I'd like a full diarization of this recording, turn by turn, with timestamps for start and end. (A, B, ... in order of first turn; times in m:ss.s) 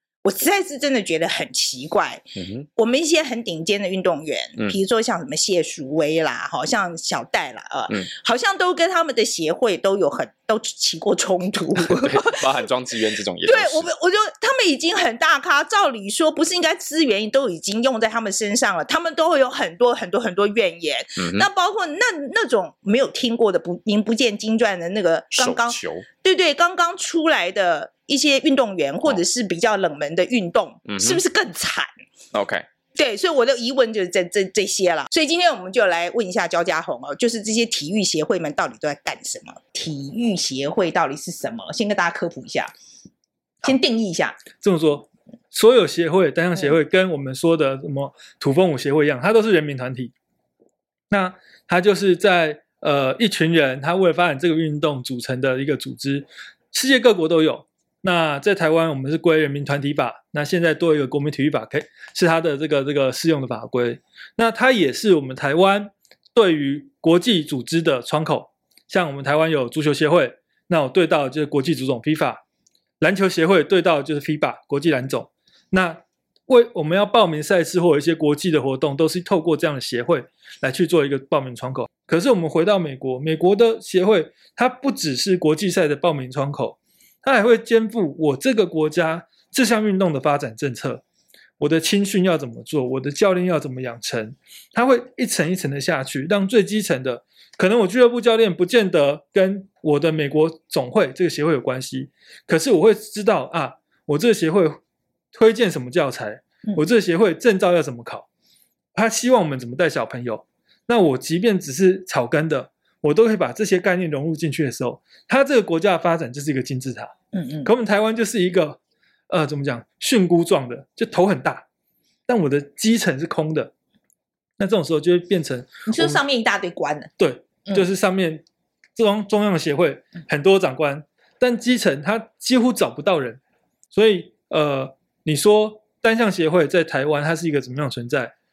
0:00.2-0:02.2 A
0:02.4-0:02.7 B
0:02.8-0:12.4 A
0:11.8-0:13.9 B
0:13.4-0:31.9 A
0:21.2-0:21.5 B
0:25.4-0:26.0 B
0:30.9-0:31.2 B
0:32.3-0:32.6 B
0:32.9-0:42.7 A
0:43.6-0:44.4 A
0:44.6-0:50.1 C
0:51.1-1:12.4 C
1:13.0-1:31.0 C
1:31.6-1:44.8 C
1:45.3-1:48.3 C
1:48.9-1:57.1 C
1:57.3-1:57.7 A
1:57.6-2:01.6 C
2:02.3-2:03.7 C
2:04.6-2:06.2 C
2:05.9-2:07.1 A
2:07.2-2:08.4 C
2:09.0-2:13.4 C
2:13.9-2:18.3 C